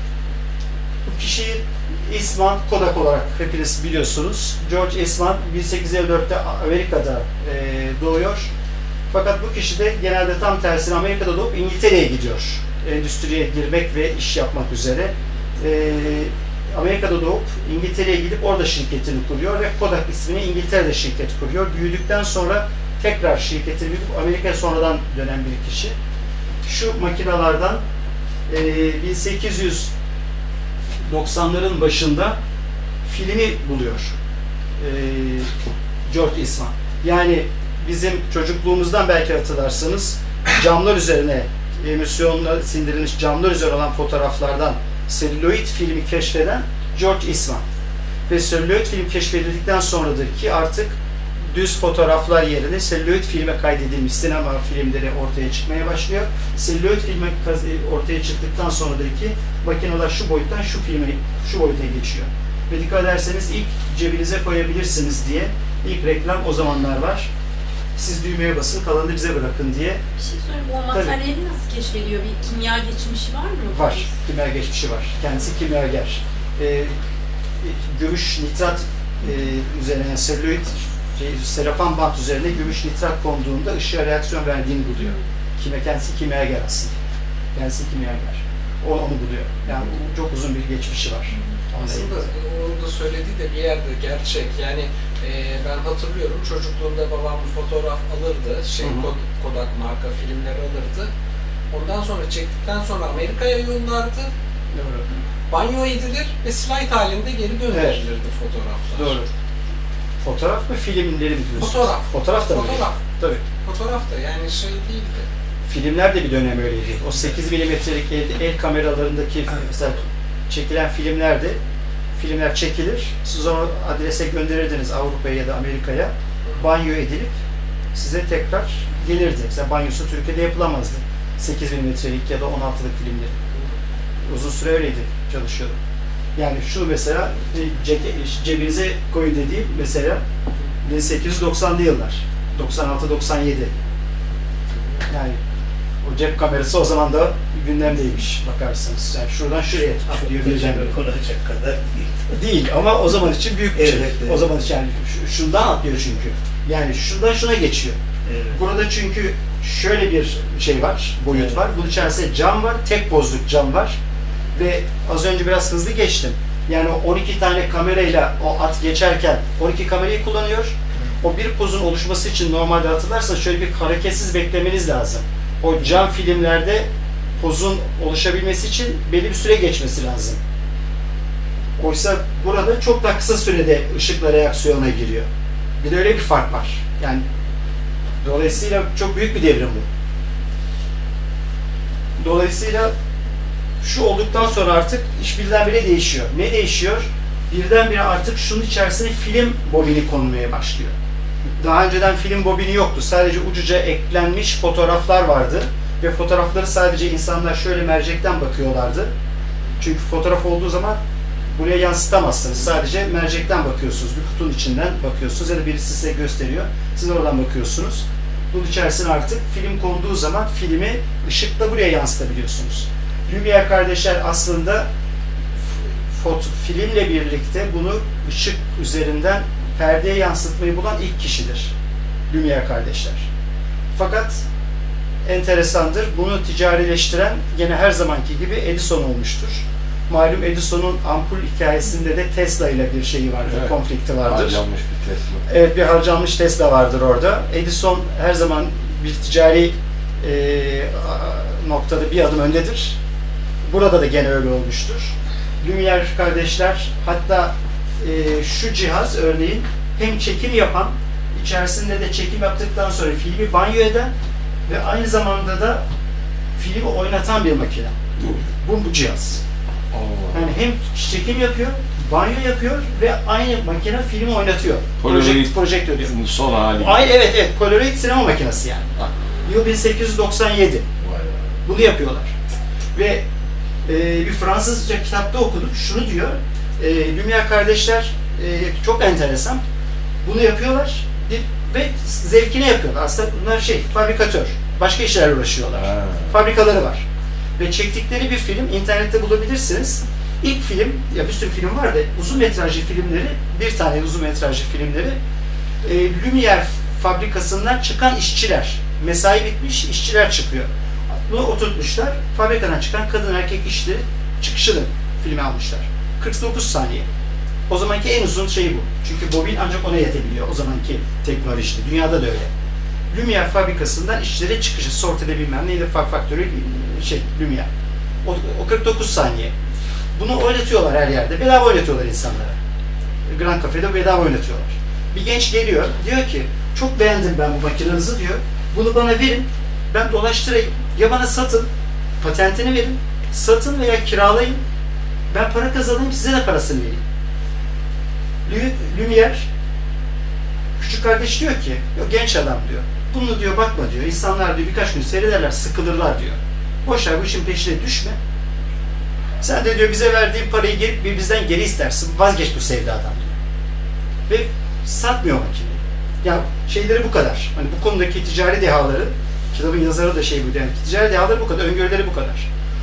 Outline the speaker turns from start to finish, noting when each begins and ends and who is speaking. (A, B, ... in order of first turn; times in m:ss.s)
0:01.0-0:08.5 A
0:09.1-0:26.0 A
0:26.6-0:27.8 A
0:28.5-0:29.9 A
0:31.1-0:32.4 A
0:33.0-0:34.2 A
0:34.8-0:35.5 A
0:36.1-0:47.6 A
0:48.3-0:51.0 A
0:51.5-1:07.3 A
1:08.0-1:10.0 A
1:10.2-1:14.1 B
1:10.9-1:11.2 A
1:13.7-1:16.9 A
1:17.6-1:26.9 A
1:27.5-1:32.3 A
1:31.8-1:41.1 C
1:38.8-1:39.1 A
1:41.7-1:44.3 C
1:44.7-1:45.0 A
1:45.5-1:49.2 C
1:47.7-1:48.0 A
1:49.0-1:49.3 A
1:50.2-1:53.4 A
1:51.6-1:53.0 C
1:53.6-1:55.2 C
1:55.7-2:01.6 A
2:02.2-2:07.4 A
2:07.9-2:13.4 A
2:14.3-2:15.7 A
2:16.4-2:20.2 A
2:20.8-2:23.7 A
2:25.1-2:25.4 A
2:26.0-2:30.9 A
2:30.1-2:32.3 D
2:32.3-2:38.0 A
2:33.7-2:34.5 D
2:38.2-2:38.6 D
2:38.5-2:44.0 A
2:41.3-2:41.6 D
2:44.5-2:56.9 A
2:57.4-3:00.4 A
3:01.8-3:05.3 A
3:05.8-3:07.2 A
3:08.2-3:09.8 A
3:12.2-3:12.9 A
3:13.8-3:20.9 A
3:21.6-3:29.1 A
3:29.8-3:31.0 A
3:31.5-3:44.9 A
3:45.7-3:51.7 A
3:52.3-3:53.3 A
3:53.9-3:54.4 A
3:55.2-4:04.6 A
4:04.2-4:05.4 E
4:05.5-4:13.0 A
4:13.6-4:24.1 A
4:24.7-4:25.8 A
4:26.6-4:29.4 A
4:29.9-4:30.5 E
4:30.3-4:36.1 A
4:35.0-4:37.0 E
4:36.8-4:40.8 A
4:41.0-4:41.7 E
4:41.6-4:42.3 A
4:42.9-4:43.2 A
4:43.8-4:49.6 A
4:50.2-4:57.0 A
4:55.9-4:56.2 E
4:57.6-5:05.2 A
5:05.8-5:10.7 A
5:11.2-5:17.0 A
5:17.7-5:22.5 A
5:23.1-5:27.7 A
5:28.2-5:29.5 A
5:30.2-5:32.6 A
5:33.3-5:41.7 A
5:42.2-5:44.6 A
5:45.3-5:47.0 A
5:48.4-5:49.5 A
5:50.8-5:58.2 A
5:59.4-6:03.4 A
6:04.3-6:12.5 A